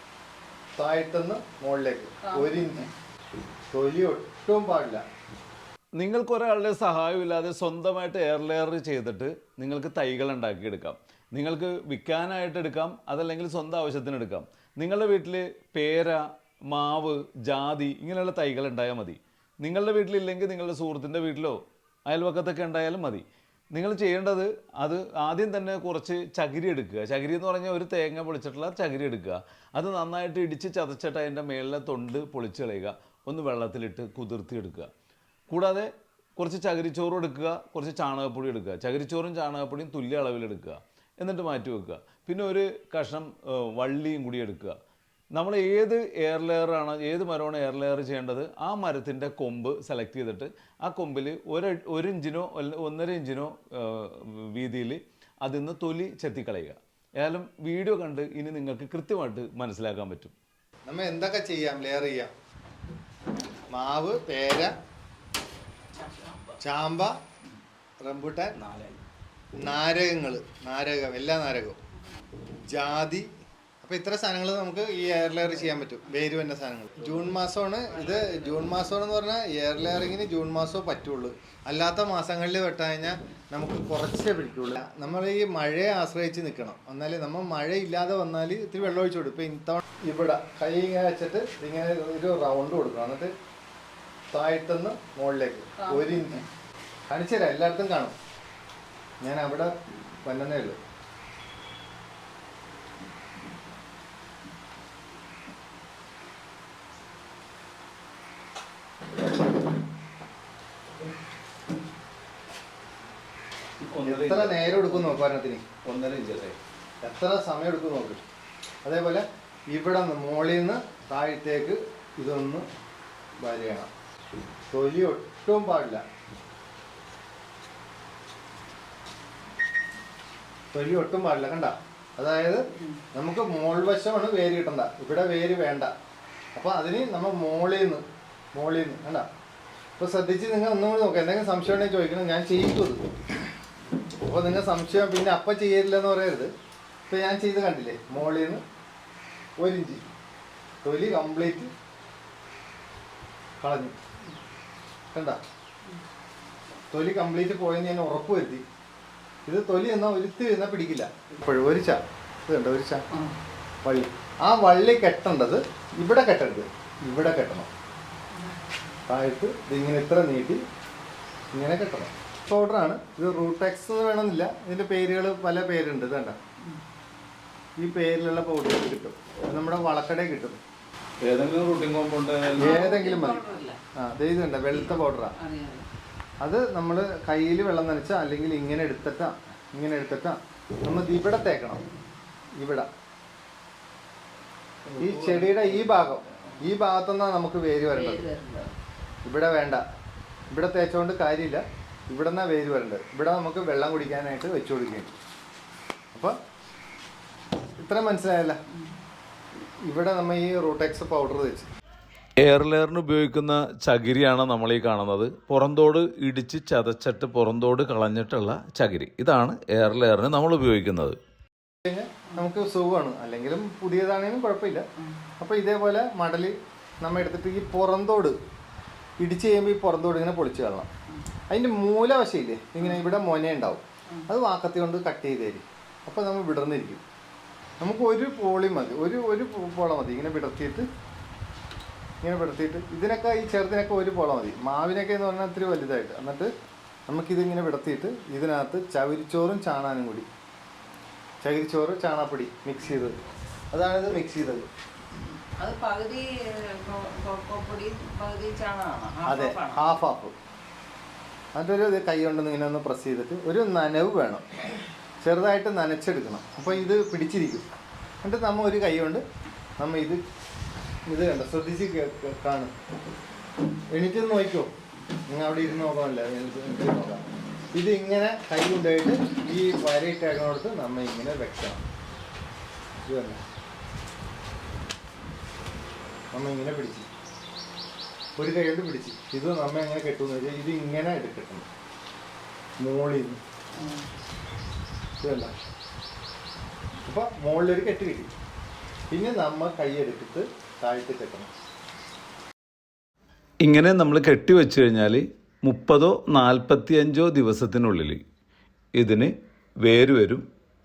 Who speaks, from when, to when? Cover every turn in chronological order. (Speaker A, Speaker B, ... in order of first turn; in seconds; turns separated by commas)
Speaker A: 0.8-2.9, Speaker B: 2.2-2.9, Speaker A: 3.7-5.0, Speaker C: 6.0-34.9, Speaker C: 35.5-44.7, Speaker C: 45.3-60.3, Speaker A: 60.9-62.3, Speaker A: 63.7-64.7, Speaker A: 66.6-67.2, Speaker A: 68.0-68.5, Speaker A: 69.6-71.8, Speaker A: 72.7-73.3, Speaker A: 73.8-93.3, Speaker A: 94.3-96.4, Speaker B: 95.8-96.4, Speaker A: 97.1-98.1, Speaker A: 99.2-100.8, Speaker C: 113.8-115.2, Speaker A: 114.0-115.6, Speaker C: 115.8-116.5, Speaker A: 117.0-118.2, Speaker A: 118.8-122.6, Speaker A: 123.4-123.9, Speaker A: 124.7-126.0, Speaker A: 130.7-132.6, Speaker A: 133.1-135.9, Speaker A: 136.6-138.0, Speaker A: 138.5-139.3, Speaker A: 140.0-143.0, Speaker A: 144.2-146.5, Speaker A: 147.1-148.6, Speaker A: 149.6-150.0, Speaker A: 150.8-151.7, Speaker A: 153.6-153.9, Speaker A: 155.1-155.4, Speaker A: 156.9-158.6, Speaker A: 159.5-163.0, Speaker A: 163.8-167.7, Speaker A: 169.1-170.6, Speaker A: 171.5-176.3, Speaker A: 177.8-180.6, Speaker C: 181.2-182.8, Speaker B: 182.5-183.8, Speaker A: 182.6-183.4, Speaker A: 184.0-185.3, Speaker B: 184.7-185.9, Speaker A: 186.4-191.8, Speaker A: 192.6-192.9, Speaker A: 194.9-198.2, Speaker C: 195.0-195.7, Speaker B: 197.9-198.7, Speaker A: 199.2-199.8, Speaker A: 200.5-205.2, Speaker A: 207.8-208.6, Speaker A: 209.8-211.7, Speaker C: 212.4-221.1, Speaker A: 221.8-224.8, Speaker A: 225.4-228.3, Speaker A: 229.2-230.9, Speaker A: 231.5-237.0, Speaker A: 237.8-240.8, Speaker A: 242.2-246.5, Speaker A: 247.1-250.2, Speaker A: 251.4-253.1, Speaker A: 253.7-254.7, Speaker B: 255.6-259.8, Speaker A: 259.2-260.3, Speaker A: 261.5-264.4, Speaker A: 265.2-267.6, Speaker A: 268.2-269.2, Speaker A: 269.8-270.2, Speaker A: 271.1-272.7, Speaker A: 273.9-274.7, Speaker A: 275.3-281.8, Speaker A: 283.1-283.4, Speaker A: 286.3-287.1, Speaker A: 288.4-291.7, Speaker A: 292.8-293.4, Speaker B: 293.8-294.0, Speaker A: 295.2-295.5, Speaker A: 297.0-298.3, Speaker A: 299.1-301.5, Speaker C: 303.6-308.2, Speaker C: 309.0-309.3, Speaker C: 309.8-310.4